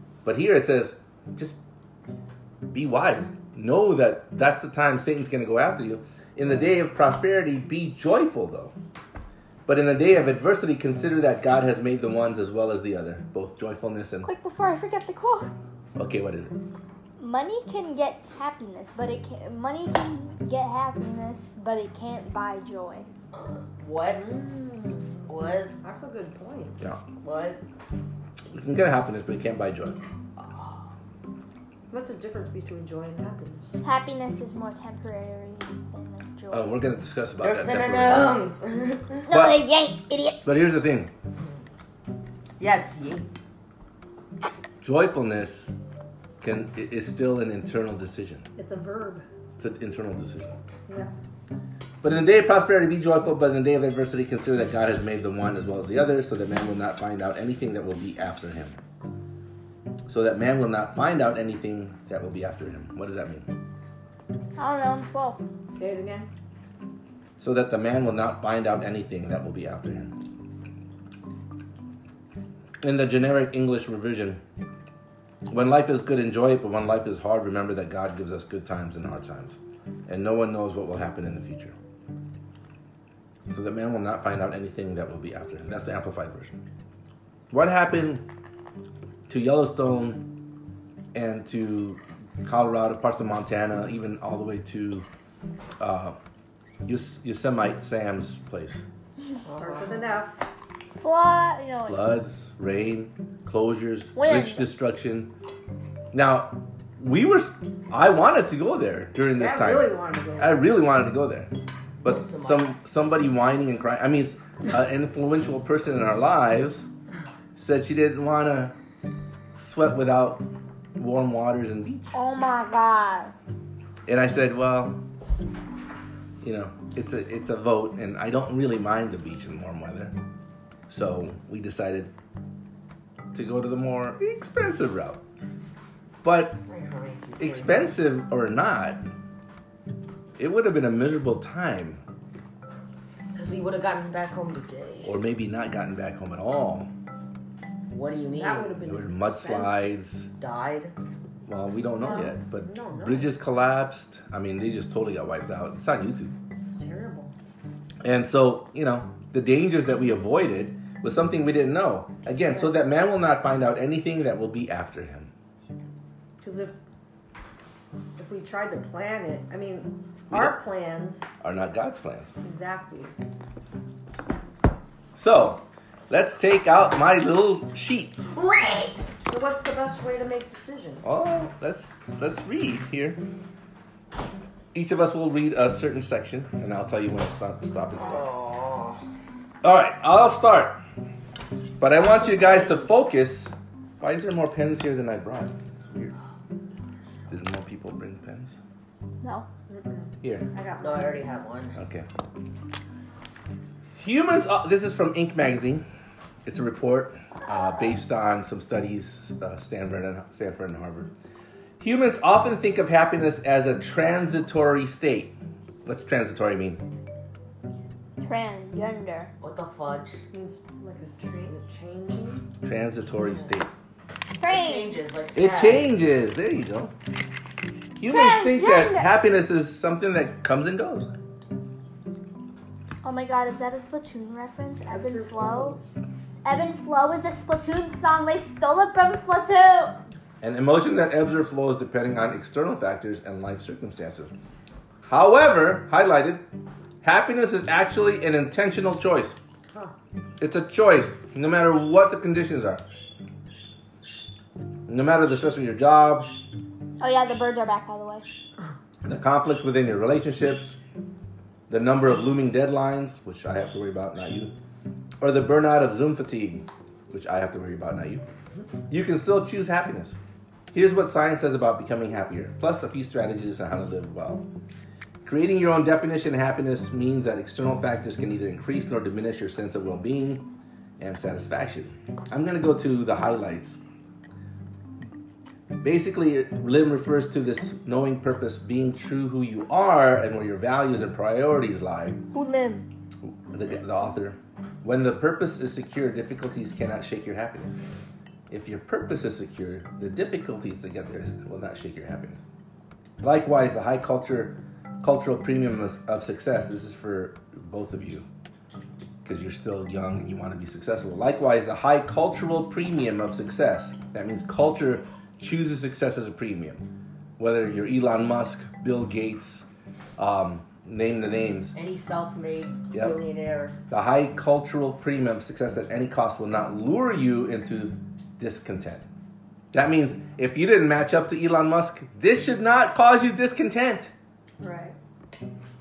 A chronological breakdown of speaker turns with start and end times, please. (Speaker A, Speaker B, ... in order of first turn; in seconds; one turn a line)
Speaker A: 0.2-1.6
Speaker A: 2.7-8.7
Speaker A: 9.7-14.3
Speaker B: 14.2-15.5
Speaker A: 16.0-16.5
Speaker B: 17.2-23.1
Speaker C: 23.3-24.2
Speaker D: 24.1-26.8
Speaker C: 25.3-25.7
Speaker C: 27.2-27.6
Speaker A: 28.5-30.0
Speaker C: 30.4-30.9
Speaker D: 31.9-33.8
Speaker B: 33.8-36.7
Speaker A: 36.5-38.4
Speaker C: 37.4-39.3
Speaker B: 39.3-40.4
Speaker A: 39.3-39.6
Speaker A: 40.5-41.1
Speaker C: 42.6-43.3
Speaker A: 44.8-45.7
Speaker A: 46.4-48.5
Speaker D: 48.6-49.2
Speaker A: 49.6-50.5
Speaker A: 52.0-58.8
Speaker A: 60.1-63.5
Speaker B: 64.6-65.4
Speaker D: 65.7-66.3
Speaker A: 67.4-70.1
Speaker A: 72.8-74.4
Speaker A: 75.5-79.6
Speaker A: 80.1-81.8
Speaker A: 83.5-86.6
Speaker A: 87.5-88.2
Speaker A: 89.3-90.3
Speaker A: 91.1-95.1
Speaker A: 95.8-96.2
Speaker A: 96.8-98.8
Speaker C: 99.5-99.9
Speaker D: 99.6-100.4
Speaker B: 101.0-102.1
Speaker A: 101.9-105.3
Speaker B: 104.2-104.7
Speaker A: 106.1-111.5
Speaker D: 109.3-110.7
Speaker A: 112.0-116.8
Speaker C: 112.0-112.7
Speaker A: 117.6-118.8
Speaker A: 119.6-122.2
Speaker B: 122.1-123.3
Speaker A: 124.1-125.0
Speaker A: 126.4-130.2
Speaker A: 130.9-132.1
Speaker A: 133.3-135.2
Speaker A: 136.2-136.6
Speaker C: 136.7-137.9
Speaker A: 137.4-139.0
Speaker A: 140.4-142.0
Speaker C: 143.3-145.2
Speaker A: 145.0-146.9
Speaker C: 147.9-148.7
Speaker D: 148.3-149.9
Speaker A: 148.9-150.3
Speaker C: 150.4-150.9
Speaker A: 151.5-156.3
Speaker D: 152.0-153.3
Speaker D: 156.6-157.3
Speaker A: 158.0-165.3
Speaker D: 166.4-166.8
Speaker D: 168.2-171.3
Speaker A: 170.3-170.6
Speaker A: 171.4-172.3
Speaker D: 172.4-173.1
Speaker A: 175.2-178.3
Speaker C: 178.3-179.0
Speaker D: 179.2-181.1
Speaker A: 181.0-183.2
Speaker A: 184.7-188.3
Speaker C: 188.0-189.0
Speaker A: 189.6-190.8
Speaker A: 191.8-196.2
Speaker C: 192.1-192.8
Speaker A: 197.3-198.6
Speaker D: 199.7-201.3
Speaker A: 200.2-200.5
Speaker C: 200.8-201.8
Speaker A: 201.8-202.1
Speaker A: 204.0-205.8
Speaker A: 206.4-211.1
Speaker A: 211.8-216.8
Speaker B: 218.2-219.3
Speaker C: 219.4-220.2
Speaker D: 220.3-222.5
Speaker A: 222.6-223.7
Speaker B: 224.4-225.0
Speaker C: 224.4-225.9
Speaker A: 225.3-226.9
Speaker A: 228.0-231.1
Speaker B: 228.0-229.1
Speaker B: 233.0-235.8
Speaker D: 234.9-236.0
Speaker B: 236.4-240.0
Speaker A: 240.4-244.3
Speaker A: 245.1-246.4
Speaker A: 247.0-249.4
Speaker A: 250.4-252.8
Speaker A: 254.9-256.3
Speaker B: 257.0-258.2
Speaker A: 259.0-260.8
Speaker A: 261.7-264.5
Speaker A: 265.2-268.2
Speaker A: 268.9-270.2
Speaker A: 270.7-274.5
Speaker A: 275.2-280.5
Speaker A: 281.0-283.8
Speaker A: 285.8-292.2
Speaker B: 292.3-292.9
Speaker A: 293.2-297.8
Speaker A: 298.5-302.4
Speaker A: 303.2-308.3
Speaker A: 309.2-316.9
Speaker A: 317.4-319.7
Speaker A: 320.2-321.7
Speaker C: 321.8-323.8
Speaker A: 323.9-329.1
Speaker A: 329.7-334.1
Speaker D: 334.6-335.0